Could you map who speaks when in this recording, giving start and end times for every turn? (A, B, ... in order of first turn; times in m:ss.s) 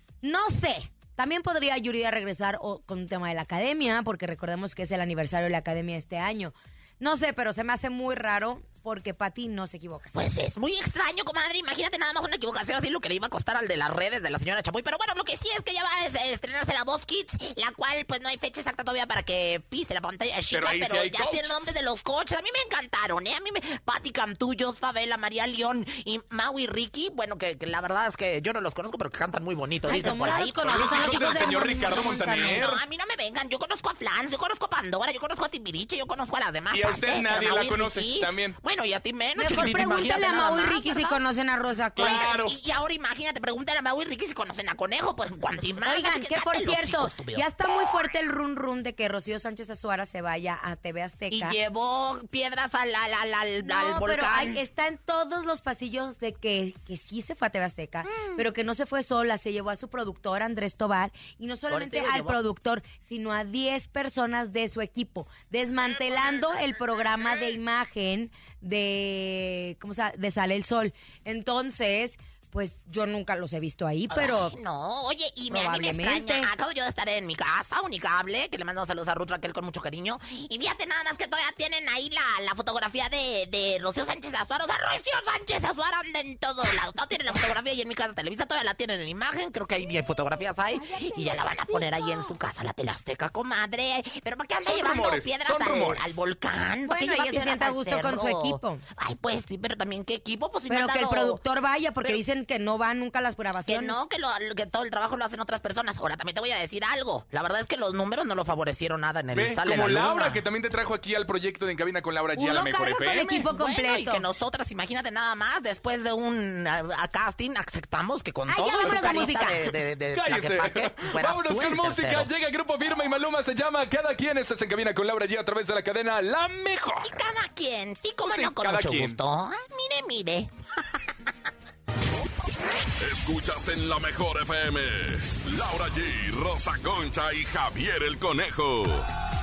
0:00.2-0:10.3 A
0:10.1-0:41.2 B
0:20.5-0:21.6 C
0:29.9-0:32.6 A
0:30.7-0:32.8 C
0:36.7-0:38.6 C
0:39.4-0:42.2 A
0:42.0-0:48.0 B
0:42.0-0:42.6 C
0:45.8-0:51.6 A
0:51.3-0:54.6 B
0:53.6-1:14.6 A
0:58.1-0:58.4 B
1:01.7-1:02.4 B
1:14.1-1:41.4 B
1:15.5-1:16.5 A
1:30.9-1:32.1 A
1:34.6-1:36.2 C
1:36.8-1:38.8 A
1:40.7-1:44.0 A
1:43.7-1:50.4 B
1:49.3-1:53.4 C
1:52.4-1:54.2 A
1:53.3-2:02.3 B
1:58.5-1:59.6 A
2:00.1-2:07.2 C
2:07.0-2:11.0 B
2:08.3-2:09.2 C
2:13.0-2:19.1 D